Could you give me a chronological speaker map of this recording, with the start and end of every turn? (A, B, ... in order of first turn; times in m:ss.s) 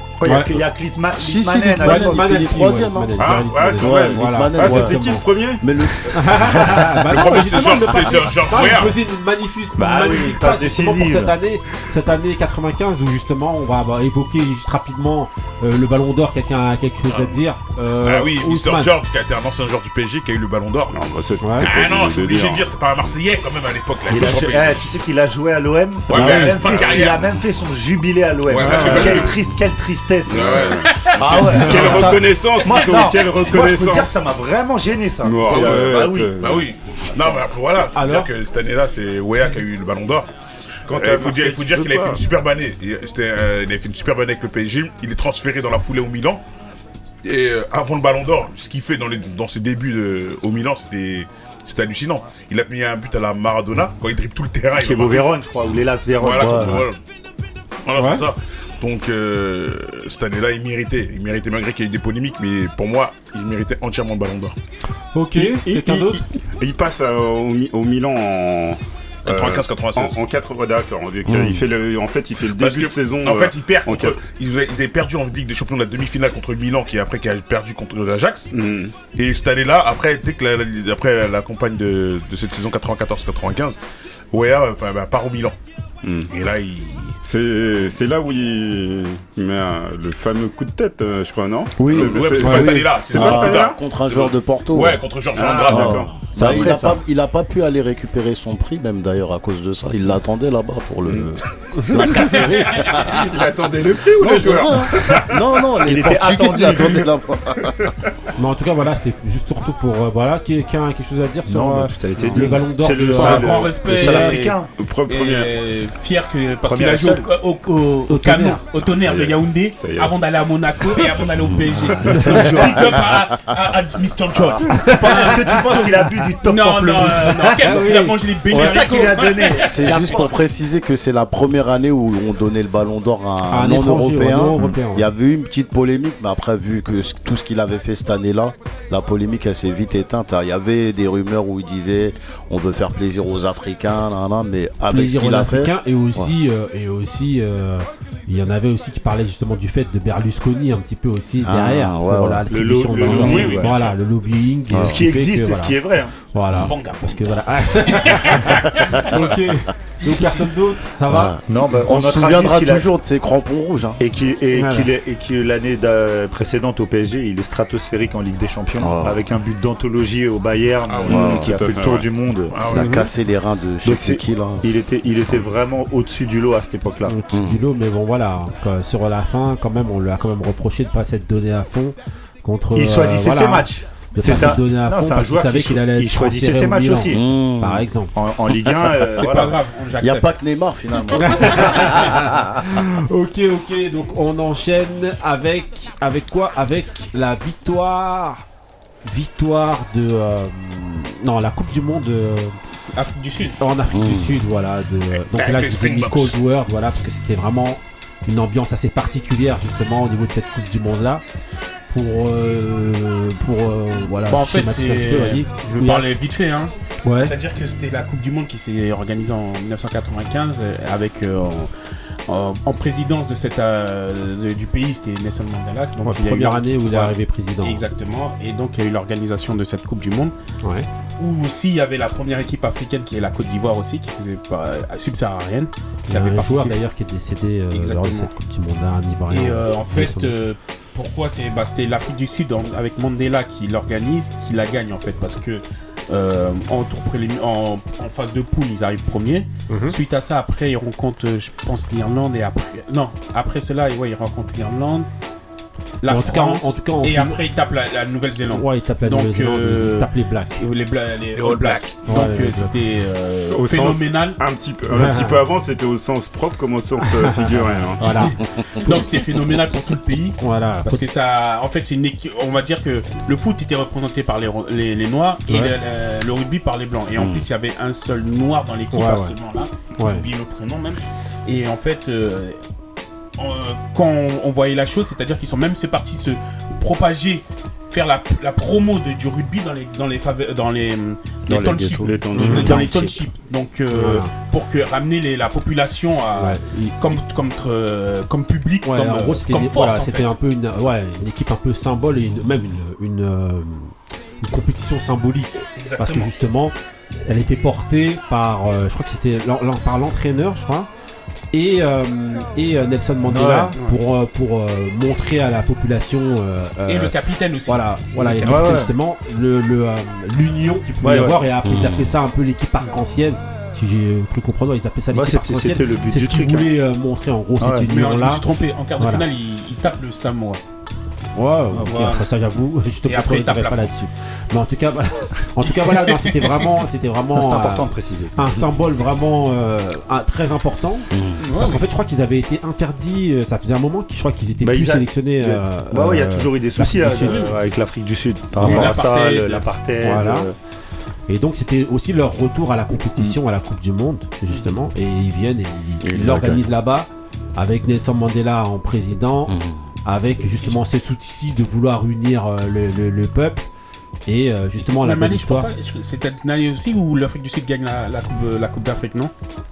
0:00.2-0:02.4 A
0:00.3-0:00.5 B
0:01.2-0:03.2 C
0:01.8-0:05.2 B
0:03.2-0:05.6 D
0:03.8-0:05.0 C
0:05.6-0:06.9 C
0:06.1-0:18.9 B
0:07.1-0:09.0 E
0:09.8-0:11.4 A
0:18.0-0:20.9 E
0:20.9-0:22.7 D
0:21.4-0:21.7 B
0:21.6-0:24.8 E
0:24.1-0:36.3 A
0:26.1-0:27.3 E
0:26.2-0:26.6 B
0:28.5-0:29.4 E
0:28.6-0:29.4 D
0:30.3-0:34.1 D
0:30.3-0:32.0 E
0:35.2-0:36.7 D
0:35.4-0:35.8 E
0:36.4-0:40.3 E
0:37.9-0:38.3 B
0:40.9-0:42.2 D
0:40.9-0:46.4 E
0:47.2-0:55.3 E
0:54.8-0:56.9 A
0:56.2-0:57.0 E
0:56.4-0:56.9 C
0:57.9-1:04.6 E
0:58.0-0:58.3 B
1:05.1-1:06.2 B
1:05.4-1:14.2 D
1:09.3-1:10.2 E
1:11.3-1:11.6 C
1:12.6-1:18.5 E
1:18.5-1:19.0 D
1:19.1-1:23.8 E
1:24.3-1:25.6 E
1:26.0-1:26.3 D
1:26.3-1:27.2 E
1:27.2-1:33.8 D
1:31.8-1:35.0 C
1:31.8-1:36.0 E
1:35.4-1:36.1 D
1:35.6-1:43.3 C
1:36.3-1:37.0 A
1:43.0-1:45.2 D
1:44.2-1:47.8 C
1:45.8-1:47.1 A
1:48.4-1:54.4 B
1:51.5-1:54.7 A
1:53.1-1:54.6 F
1:54.8-1:55.5 D
1:55.1-2:05.9 F
1:56.6-1:57.3 A
1:58.1-1:58.6 B
1:58.8-2:00.1 D
2:01.9-2:02.8 B
2:02.2-2:03.0 A
2:04.7-2:07.6 A
2:04.8-2:05.5 B
2:06.4-2:10.3 F
2:07.6-2:08.2 B
2:08.5-2:10.3 A
2:09.6-2:26.3 C
2:13.5-2:15.1 B
2:24.9-2:41.4 B
2:31.4-2:32.5 C
2:32.5-2:33.7 A
2:33.0-2:33.9 F
2:34.7-2:35.0 C
2:34.8-2:36.1 A
2:36.6-2:37.2 F
2:37.8-2:38.6 F
2:41.1-2:44.0 C
2:41.5-2:42.9 A
2:44.0-2:52.6 A
2:44.6-2:44.9 B
2:48.8-2:49.2 C
2:50.9-2:51.3 E
2:51.1-2:52.1 D
2:51.1-2:51.5 C
2:52.5-2:52.9 E
2:52.7-2:55.5 C
2:52.7-2:53.1 B
2:53.8-2:57.2 A
2:57.1-3:08.2 B
2:57.3-2:57.6 C
3:02.7-3:07.2 A
3:07.1-3:07.9 C
3:08.1-3:09.6 A
3:09.1-3:10.3 F
3:10.0-3:12.2 C
3:11.2-3:18.4 B
3:19.0-3:22.6 B
3:22.9-3:23.6 F
3:23.6-3:31.2 B
3:23.9-3:24.4 C
3:25.3-3:26.4 E
3:31.9-3:36.1 B
3:34.3-3:41.7 F
3:37.0-3:37.4 B
3:42.3-3:50.3 F
3:46.0-3:47.8 B
3:51.2-3:56.8 F
3:56.1-4:00.3 B
3:57.7-3:58.3 F
3:59.3-4:15.1 F
4:09.7-4:10.0 B
4:16.0-4:24.4 F
4:16.1-4:17.4 B
4:18.5-4:20.6 B
4:21.4-4:22.0 E
4:22.1-4:22.7 B
4:23.5-4:28.2 D
4:24.9-4:25.4 B
4:27.0-4:28.3 B
4:28.8-4:42.6 F
4:30.4-4:31.1 B
4:37.2-4:37.4 C
4:38.9-4:39.3 B
4:40.0-4:40.2 B
4:43.4-5:00.4 F
4:51.5-4:52.2 C
4:52.0-4:52.9 D
4:52.4-4:53.2 B
4:53.9-4:54.3 B
4:56.4-4:57.0 B
4:58.8-5:06.8 B
5:05.8-5:06.3 F
5:07.3-5:10.9 B
5:11.5-5:17.1 B
5:13.3-5:13.7 A
5:16.9-5:18.9 F
5:17.7-5:28.4 B
5:18.4-5:18.9 A
5:21.0-5:21.4 A
5:21.6-5:22.1 C
5:25.1-5:26.7 A
5:27.6-5:27.9 A
5:27.9-5:30.6 F
5:29.0-5:29.2 B
5:31.4-5:47.5 B
5:31.8-5:32.3 F
5:33.1-5:33.9 F
5:35.8-5:36.5 F
5:37.3-5:38.8 A
5:41.1-5:41.4 C
5:41.4-5:41.9 F
5:44.6-5:50.6 A
5:47.2-5:47.6 F
5:48.6-5:49.6 F
5:50.0-5:50.5 B
5:51.3-5:59.5 B
5:56.0-5:56.7 C
5:59.5-5:59.8 C
6:00.1-6:03.6 B
6:04.3-6:05.7 B
6:04.8-6:09.3 F